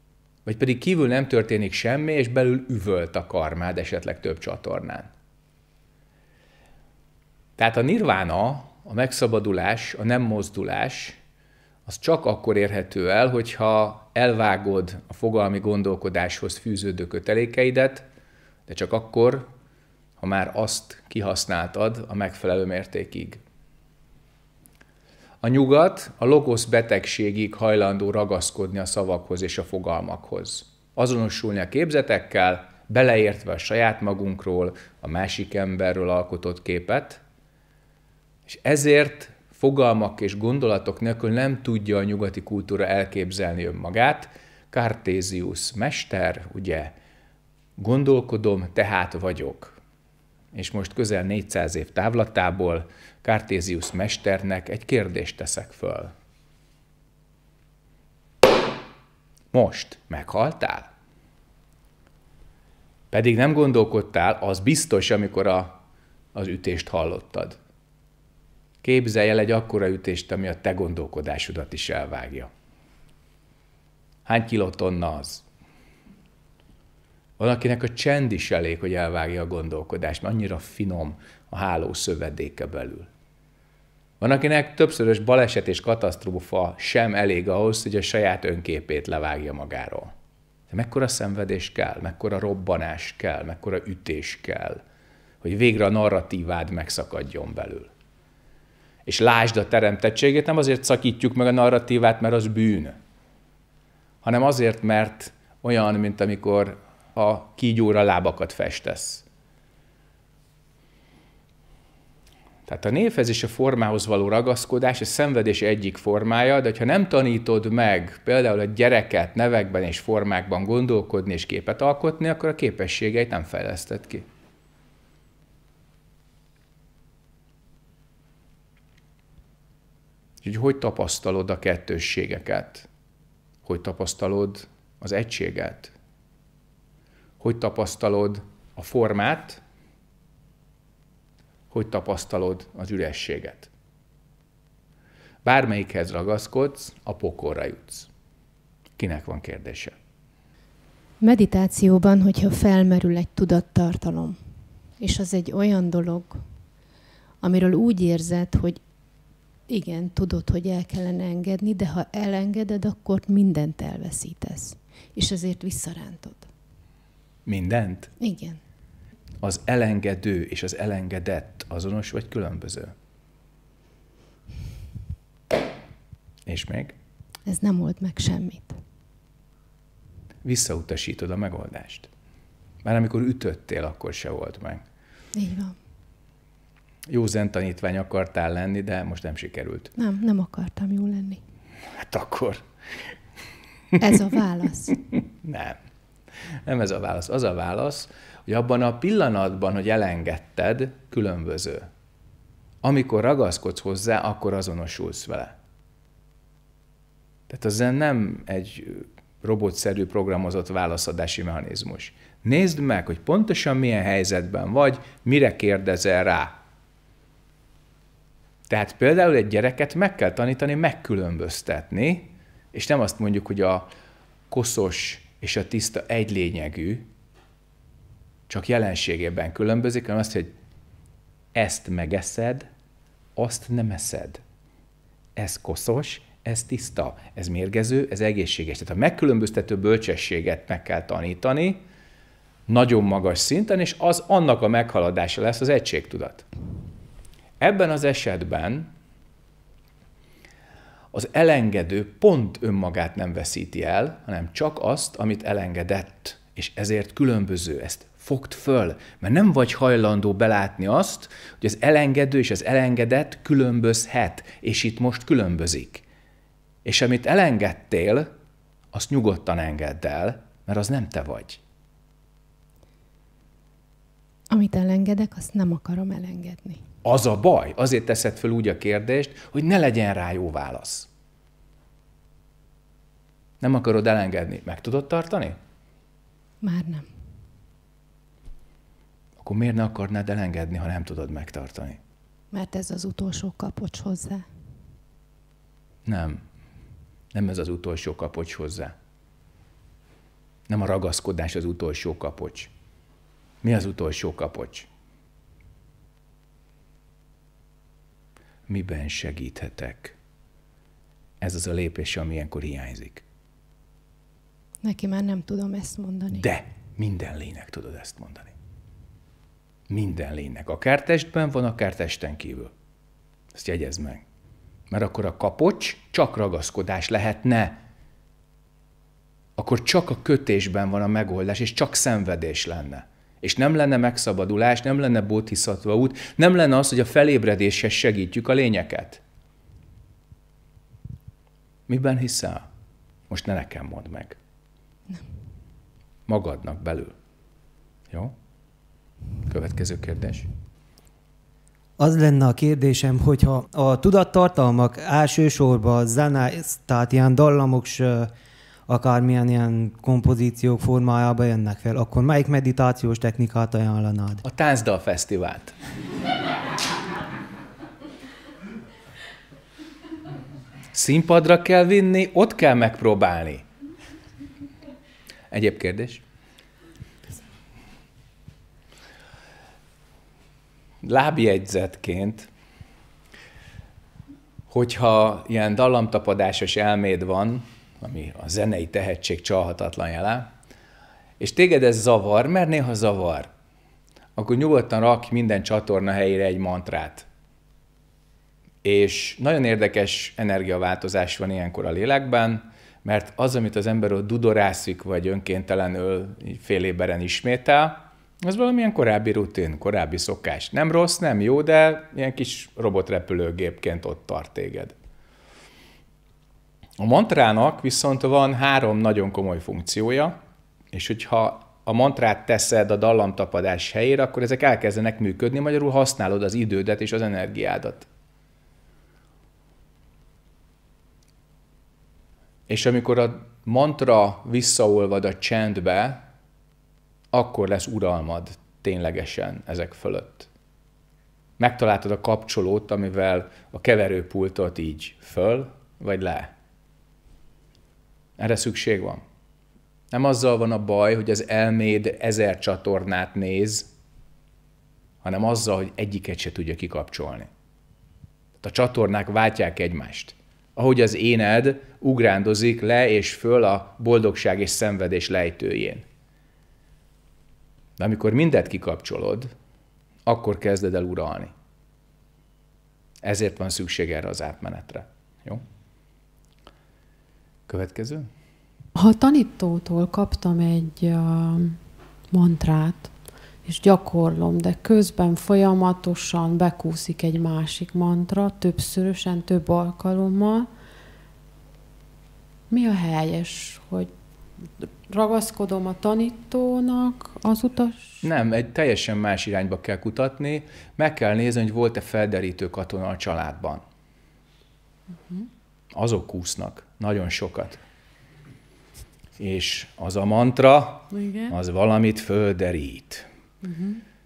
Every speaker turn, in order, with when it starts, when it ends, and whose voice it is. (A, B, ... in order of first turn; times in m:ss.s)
0:00.5-0:05.1 A
0:07.6-0:11.2 A
0:11.9-0:18.0 A
0:18.7-0:19.5 A
0:20.2-0:23.4 A
0:25.4-0:37.2 A
0:38.5-0:46.9 A
0:47.8-0:49.8 A
0:50.5-0:56.1 A
0:59.5-1:00.9 A
1:03.1-1:05.8 A
1:06.3-1:07.6 A
1:08.8-1:12.5 A
1:14.3-1:15.4 A
1:17.4-1:23.1 A
1:24.2-1:30.1 A
1:30.7-1:34.8 A
1:35.4-1:37.9 A
1:39.1-1:43.0 A
1:44.2-1:49.2 A
1:52.7-2:04.2 A
2:10.4-2:12.9 A
2:13.6-2:15.9 A
2:17.4-2:19.6 A
2:21.7-2:23.7 A
2:25.4-2:28.1 A
2:29.0-2:29.9 A
2:31.2-2:36.7 B
2:37.4-2:38.8 B
2:39.6-2:46.5 B
2:47.4-2:48.1 A
2:48.2-2:48.6 B
2:49.4-2:52.9 A
2:56.4-2:56.9 A
2:57.4-2:58.8 B
3:00.4-3:02.1 A
3:02.8-3:04.8 A
3:05.3-3:05.8 B
3:07.1-3:09.9 A
3:10.0-3:11.4 B
3:12.0-3:12.6 A
3:14.0-3:15.0 B
3:15.4-3:15.8 A
3:16.6-3:21.9 A
3:22.8-3:25.6 A
3:27.5-3:36.6 A
3:38.7-3:43.9 A
3:44.5-3:47.1 A
3:48.5-3:50.5 A
3:51.6-3:52.7 A
3:53.4-3:54.4 A
3:55.4-4:01.8 A
4:02.7-4:06.4 A
4:07.6-4:08.9 A
4:11.1-4:26.0 A
4:26.8-4:28.3 A
4:28.9-4:31.6 A
4:34.5-4:36.8 B
4:37.0-4:41.1 A
4:43.6-4:45.6 A
4:46.6-4:47.2 B
4:49.4-4:52.0 A
4:52.5-4:54.5 B
4:56.1-4:56.4 A
4:57.3-4:58.9 A
5:00.7-5:02.7 A
5:03.6-5:04.9 A
5:08.7-5:10.2 A
5:11.4-5:13.2 A
5:14.8-5:16.5 B
5:16.3-5:18.5 A
5:19.9-5:22.7 A
5:23.5-5:24.2 A
5:24.9-5:27.8 A
5:29.6-5:39.2 A
5:41.9-5:42.7 A
5:43.3-5:44.4 A
5:46.3-5:47.2 A
5:49.5-5:50.5 A
5:52.0-5:58.3 C
5:58.9-6:04.4 C
6:04.4-6:05.8 A
6:10.9-6:13.6 A
6:15.5-6:16.2 A
6:21.0-6:22.5 A
6:24.7-6:30.5 A
6:31.4-6:33.5 A
6:34.4-6:37.3 A
6:38.8-6:54.9 A
6:57.0-7:00.4 A
7:00.9-7:08.1 A
7:12.7-7:16.2 A
7:17.3-7:20.5 A
7:21.6-7:26.5 A
7:28.4-7:29.2 A
7:30.1-7:33.9 A
7:35.2-7:37.5 A
7:38.6-7:46.0 A
7:48.0-7:49.5 A
7:50.3-7:51.5 A
7:53.2-7:55.6 A
7:57.7-7:58.3 A
7:58.9-8:10.7 D
8:12.7-8:18.2 D
8:18.2-8:23.8 A
8:25.9-8:27.8 A
8:29.4-8:33.2 A
8:31.1-8:31.6 D
8:33.6-8:34.0 D